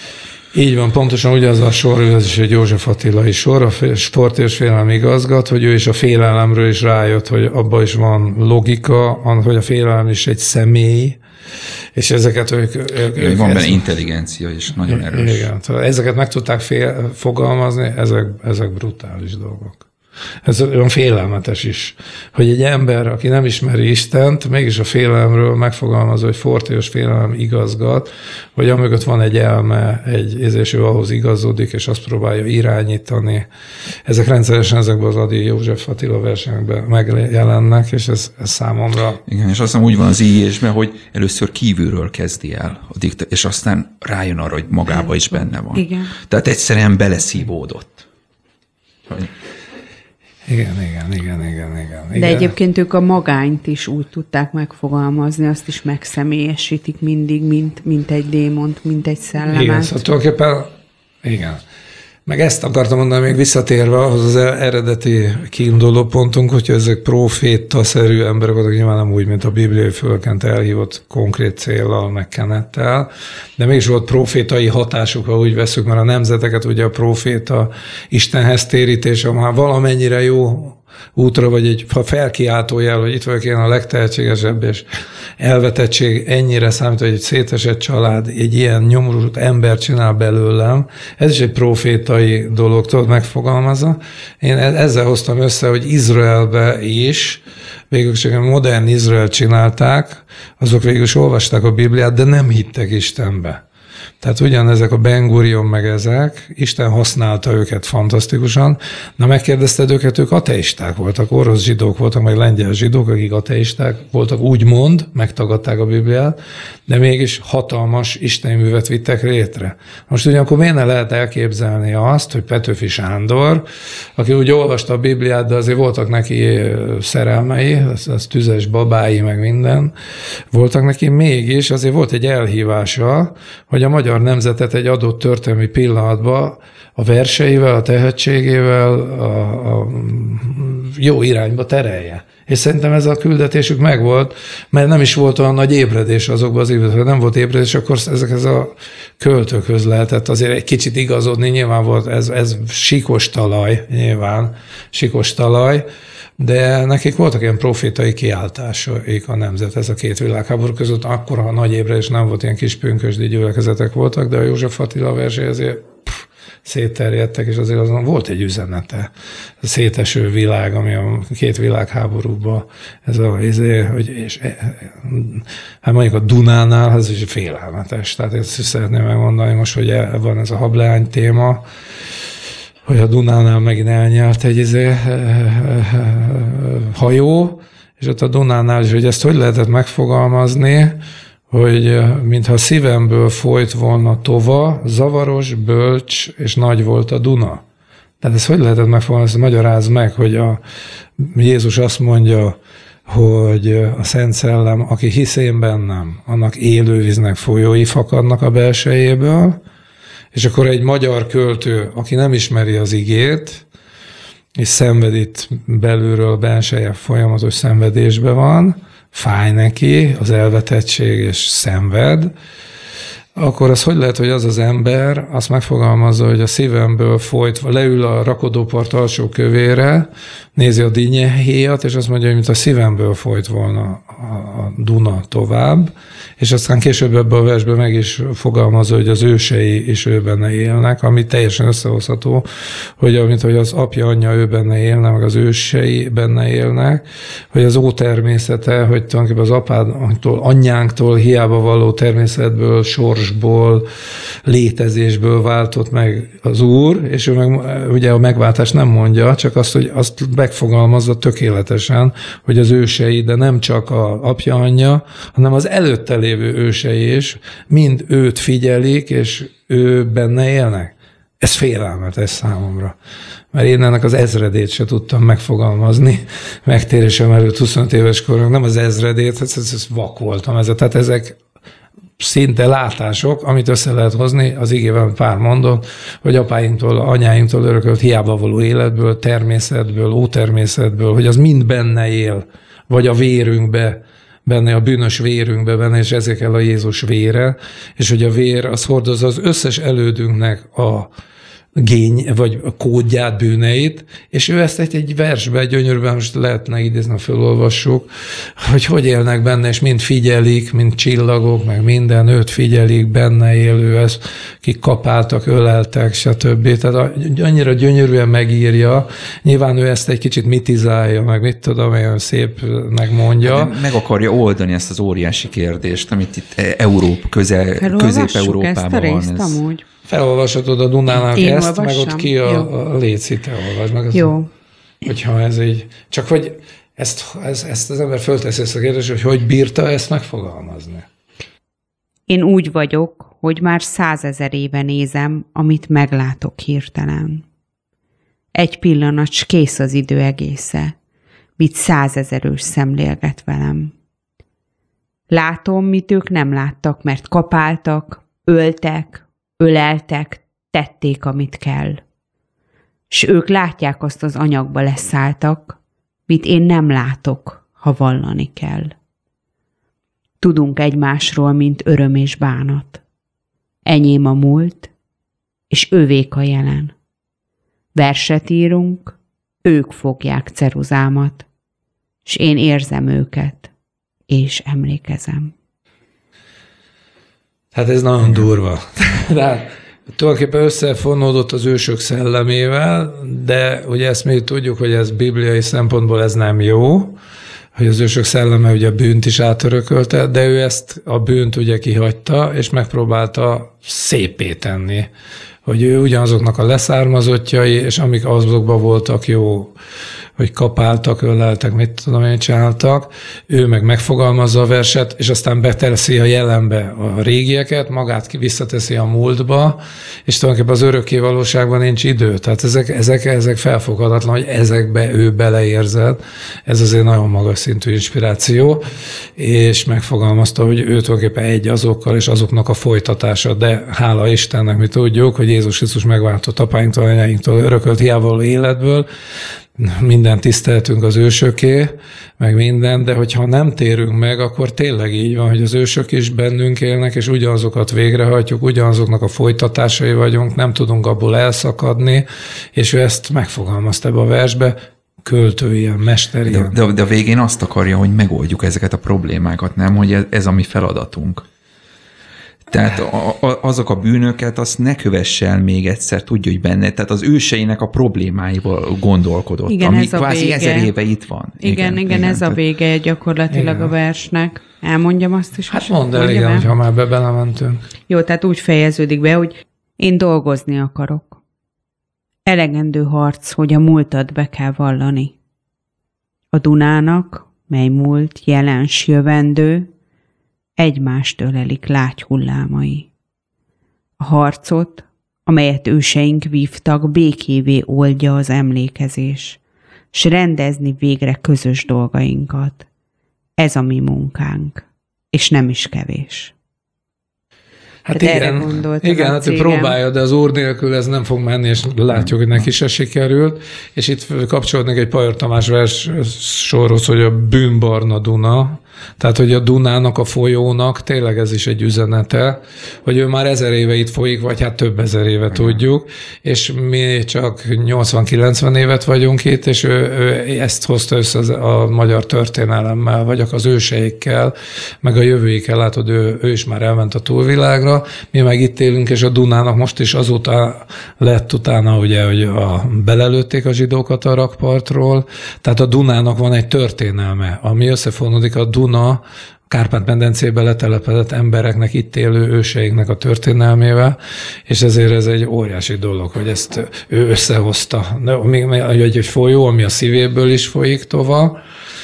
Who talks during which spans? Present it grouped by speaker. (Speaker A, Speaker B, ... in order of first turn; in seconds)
Speaker A: 0.5-11.2, 11.9-13.9, 14.9-19.9, 20.4-33.5, 34.0-39.2, 50.5-52.5, 59.5-60.7, 61.2-61.6, 62.2-84.9, 85.4-103.6, 104.2-129.9, 130.5-155.8, 156.4-181.6, 182.9-191.0, 191.5-197.6, 198.2-200.6, 201.2-209.6, 210.3-213.6, 214.6-222.3, 223.4-242.4, 243.0-253.9, 254.4-272.9, 273.5-281.4, 282.2-301.1, 301.8-323.8, 330.1-334.3, 335.0-341.1, 387.7-397.2, 397.8-405.1, 405.6-409.7, 410.4-428.8, 429.4-439.1, 439.8-456.7, 473.5-473.9, 475.7-477.8, 508.1-561.6
Speaker B: 13.1-15.5, 39.3-48.1, 323.4-329.6, 456.4-461.4, 462.7-472.6
Speaker C: 44.9-46.1, 52.1-59.9, 327.8-329.8, 331.1-332.7, 334.1-334.5, 342.3-347.4, 348.6-350.9, 351.6-353.9, 355.3-362.0, 363.1-365.8, 366.3-368.9, 370.4-373.0, 373.9-374.9, 375.7-376.9, 377.9-381.4, 382.2-383.7, 384.3-385.5, 469.7-470.9, 471.6-476.7, 478.1-481.4, 482.4-485.4, 486.5-489.9, 490.8-493.1, 494.2-499.6, 500.1-502.9, 503.6-506.5, 508.1-509.9